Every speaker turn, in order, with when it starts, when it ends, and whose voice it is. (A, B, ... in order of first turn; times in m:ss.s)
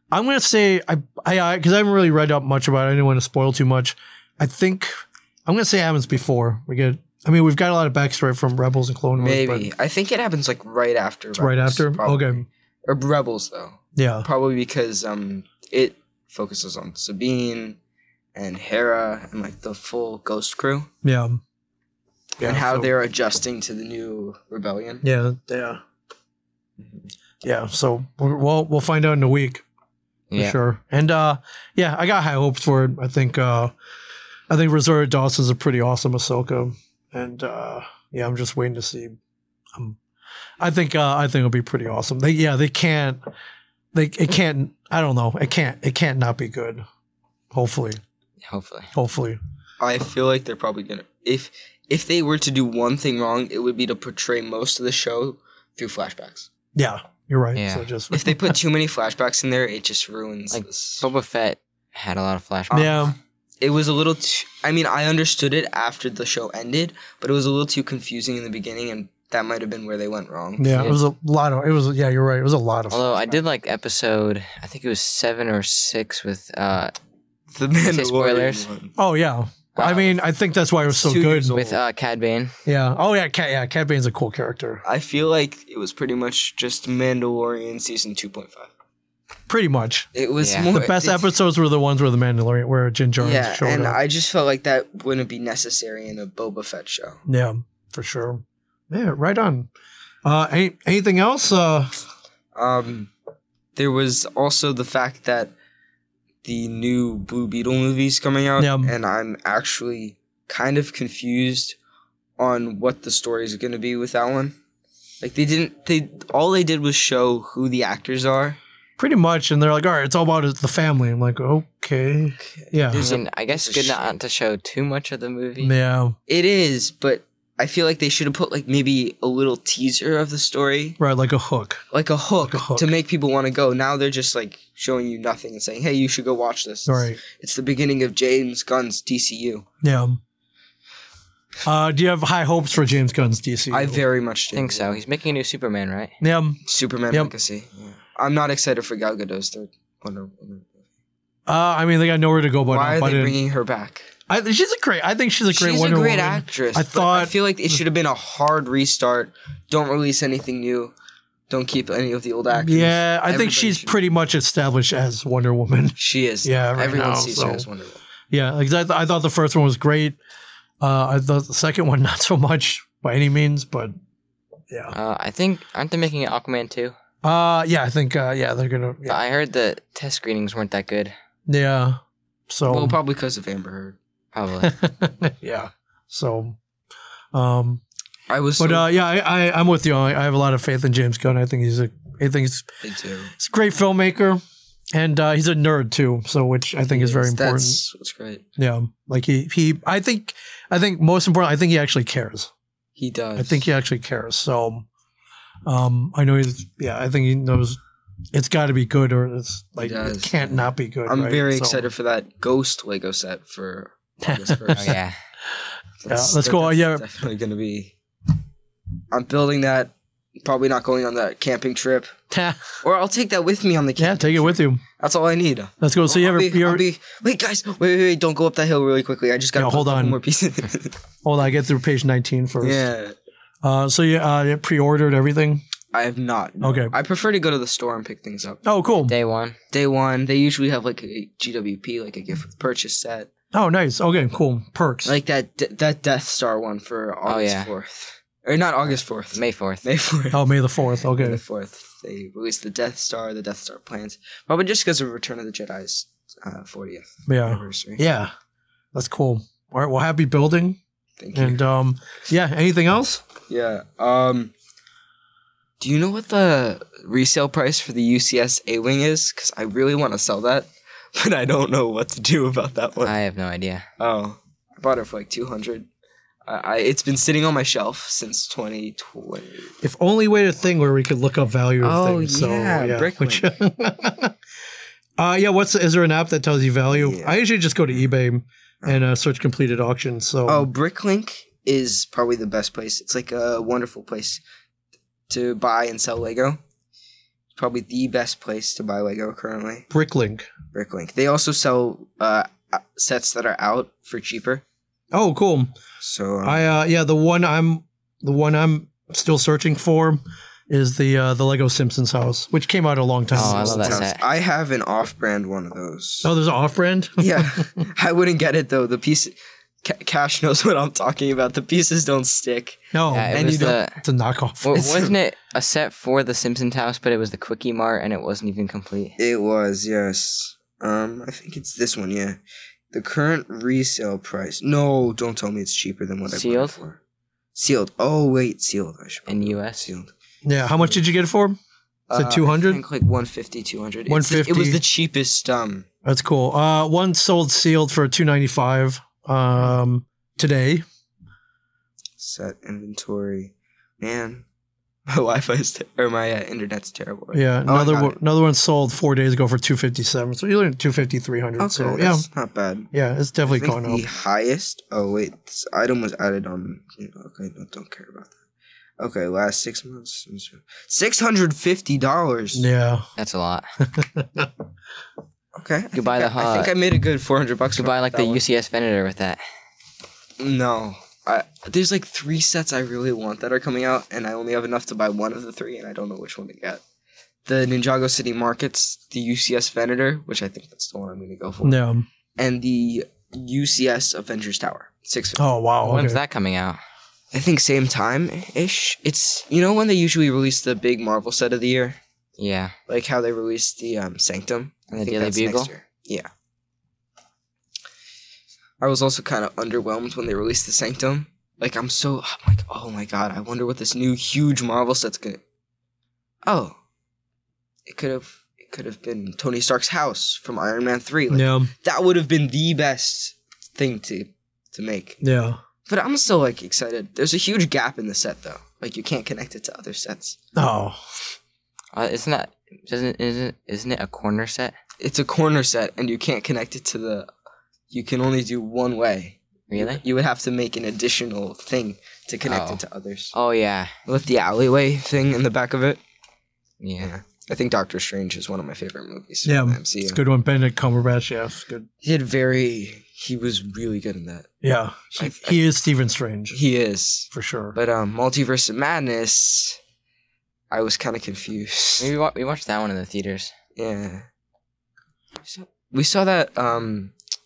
0:00.1-0:04.9 A
0:05.4-0:09.7 A
0:09.2-0:17.8 B
0:11.4-0:12.4 A
0:14.0-0:14.3 A
0:18.3-0:20.9 B
0:21.0-0:21.4 A
0:22.4-0:22.9 A
0:22.4-0:25.0 B
0:25.0-0:25.8 A
0:27.4-0:29.6 A
0:30.3-0:30.6 C
0:30.4-0:33.7 A
0:34.5-0:39.2 A
0:40.6-0:43.2 A
0:43.9-0:46.8 A
0:47.5-0:48.0 A
0:48.4-0:48.9 C
0:48.9-0:49.4 A
0:49.8-0:56.5 B
0:56.7-0:58.6 A
0:57.6-0:57.9 C
0:58.1-1:01.0 B
1:00.5-1:03.1 C
1:02.7-1:03.2 A
1:03.6-1:10.9 B
1:10.6-1:13.1 A
1:10.7-1:11.0 C
1:12.9-1:16.9 C
1:17.6-1:19.0 B
1:17.8-1:18.7 C
1:19.0-1:21.6 A
1:19.8-1:20.1 C
1:20.9-1:21.8 B
1:21.5-1:22.5 C
1:22.7-1:24.8 A
1:24.8-1:28.7 B
1:29.5-1:30.1 A
1:30.1-1:31.3 B
1:30.4-1:30.7 C
1:30.7-1:34.0 A
1:33.2-1:37.2 B
1:37.3-1:39.7 A
1:40.2-1:42.0 A
1:42.6-1:43.1 B
1:43.7-1:45.5 B
1:46.4-1:51.8 B
1:48.6-1:48.9 A
1:52.4-1:54.6 B
1:55.2-1:58.6 B
1:59.0-2:03.1 A
2:02.4-2:04.1 B
2:03.0-2:05.7 C
2:05.6-2:06.2 A
2:06.3-2:11.0 B
2:11.0-2:11.8 A
2:11.9-2:19.7 B
2:12.4-2:12.9 A
2:16.9-2:17.2 A
2:19.8-2:20.2 A
2:21.6-2:24.0 A
2:23.7-2:25.0 B
2:24.5-2:26.1 C
2:26.2-2:26.6 A
2:26.6-2:30.8 B
2:31.5-2:33.4 A
2:32.7-2:34.0 B
2:34.3-2:37.8 A
2:35.5-2:40.9 B
2:41.5-2:44.0 B
2:42.5-2:47.7 A
2:46.0-2:48.0 B
2:48.3-2:50.2 A
2:50.8-2:53.9 A
2:54.9-2:56.9 C
2:57.2-2:59.2 A
2:59.1-3:01.1 C
3:01.5-3:03.0 A
3:02.7-3:04.0 B
3:04.3-3:04.7 C
3:04.6-3:06.6 A
3:07.3-3:07.8 A
3:08.3-3:08.9 B
3:08.6-3:12.7 A
3:12.8-3:13.3 B
3:13.4-3:14.4 A
3:14.9-3:17.8 A
3:16.9-3:18.4 B
3:18.6-3:22.5 A
3:23.0-3:23.6 B
3:23.4-3:24.9 A
3:25.7-3:27.8 A
3:28.3-3:31.8 A
3:29.8-3:35.0 B
3:34.2-3:35.0 A
3:34.8-3:35.1 C
3:36.0-3:38.0 B
3:36.1-3:37.0 A
3:39.1-3:39.9 B
3:40.4-3:42.1 B
3:42.3-3:42.8 A
3:42.8-3:51.0 B
3:44.0-3:44.8 A
3:45.8-3:46.8 A
3:49.6-3:50.2 A
3:51.2-3:52.9 A
3:52.6-3:53.2 B
3:53.6-3:55.6 A
3:55.9-3:58.6 B
3:56.6-3:56.9 A
3:58.6-3:59.1 A
3:59.1-3:59.6 C
3:59.7-4:03.3 B
4:03.5-4:05.2 A
4:05.0-4:10.5 B
4:07.3-4:07.7 C
4:09.3-4:09.8 C
4:10.3-4:11.4 A
4:11.0-4:18.0 B
4:17.3-4:18.3 A
4:18.9-4:20.8 A
4:21.2-4:21.6 B
4:21.3-4:23.2 A
4:23.5-4:24.5 B
4:25.8-4:33.1 B
4:33.0-4:33.9 C
4:34.0-4:35.9 B
4:36.4-4:39.7 B
4:39.8-4:44.3 A
4:41.8-4:43.5 B
4:45.2-4:50.7 A
4:46.9-4:47.4 B
4:50.4-4:54.4 B
4:55.3-4:56.6 B
4:57.6-4:59.9 B
4:59.9-5:00.5 A
5:00.7-5:04.6 B
5:05.1-5:05.7 A
5:06.0-5:06.6 B
5:06.4-5:14.0 A
5:13.3-5:16.3 B
5:13.3-5:14.2 C
5:16.2-5:17.7 A
5:17.2-5:23.8 B
5:22.9-5:24.8 A
5:23.1-5:24.0 C
5:24.6-5:29.2 C
5:24.7-5:25.1 B
5:29.2-5:32.4 B
5:32.9-5:37.0 B
5:36.3-5:36.8 C
5:37.6-5:41.0 B
5:39.3-5:39.9 C
5:40.4-5:41.6 A
5:42.1-5:45.9 B
5:42.1-5:42.8 A
5:44.1-5:44.8 A
5:46.0-5:50.8 A
5:52.2-5:54.4 B
5:55.1-5:58.2 B
5:57.3-6:02.3 A
6:01.6-6:02.9 B
6:02.9-6:04.0 A
6:03.4-6:08.3 B
6:09.0-6:12.7 B
6:12.5-6:13.0 A
6:13.2-6:13.7 C
6:13.8-6:14.5 A
6:15.6-6:18.4 B
6:16.0-6:16.7 C
6:17.7-6:19.4 C
6:20.4-6:26.8 B
6:27.4-6:31.8 B
6:31.6-6:32.0 A
6:32.4-6:35.4 B
6:35.4-6:36.2 A
6:35.8-6:36.8 C
6:37.3-6:42.0 B
6:42.4-6:42.7 C
6:42.9-6:46.3 B
6:44.9-6:45.7 C
6:48.8-6:55.4 B
6:56.4-6:56.8 B
6:57.9-7:05.2 B
7:01.3-7:01.7 A
7:05.2-7:05.6 A
7:05.9-7:10.4 B
7:10.6-7:11.0 A
7:11.9-7:14.7 C
7:15.0-7:17.3 B
7:17.9-7:23.3 B
7:19.7-7:20.0 C
7:22.5-7:22.8 C
7:23.3-7:23.9 C
7:24.1-7:26.0 B
7:26.8-7:27.1 C
7:27.0-7:30.2 B
7:29.4-7:31.9 A
7:32.0-7:34.5 B
7:34.6-7:36.6 A
7:35.1-7:35.7 B
7:36.5-7:39.8 B
7:37.3-7:37.8 A
7:40.7-7:42.1 B
7:42.0-7:43.5 C
7:43.8-7:44.3 B
7:45.4-7:47.1 B